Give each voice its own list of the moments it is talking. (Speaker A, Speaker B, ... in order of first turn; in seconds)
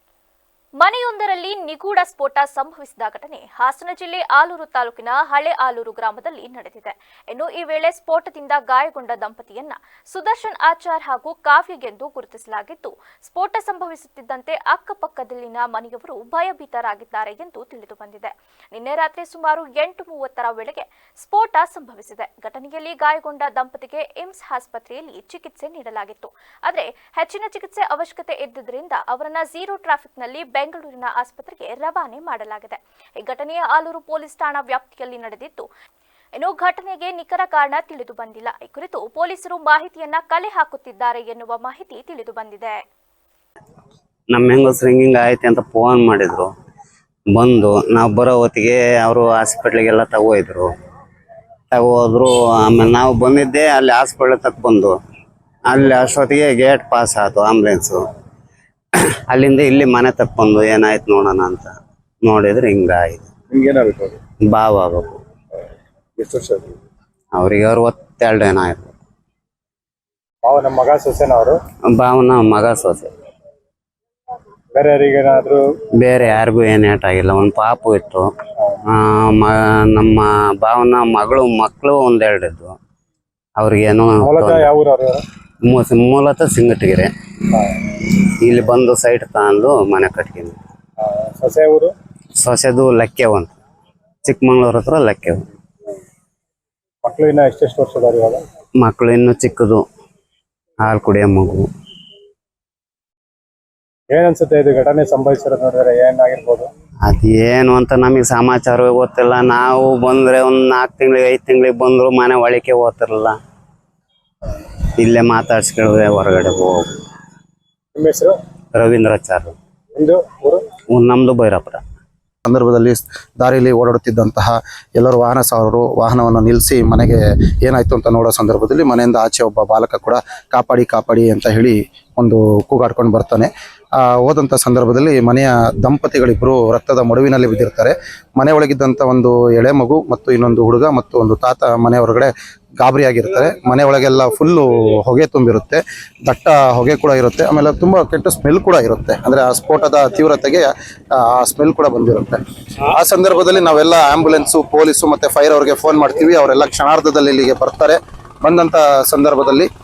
Speaker A: 0.8-35.6, 36.4-42.8
Speaker B: 44.3-46.5, 47.3-50.7, 51.7-55.0, 55.7-58.0, 59.3-61.7, 62.2-63.3, 64.5-65.2, 67.4-68.9, 71.9-73.1, 76.0-78.3, 78.9-82.8, 83.6-84.7, 85.7-87.1, 88.4-90.6, 92.4-93.5, 94.2-95.5, 98.8-99.8, 100.8-101.6, 107.1-113.4, 115.0-116.9, 118.8-119.5, 120.9-121.8
Speaker C: 63.5-64.2, 66.2-66.8, 70.4-71.6, 74.8-75.6, 84.2-85.2, 91.0-91.9, 97.0-98.4, 104.1-106.7, 118.0-118.3, 120.0-120.7
Speaker D: 122.5-133.5, 134.0-159.7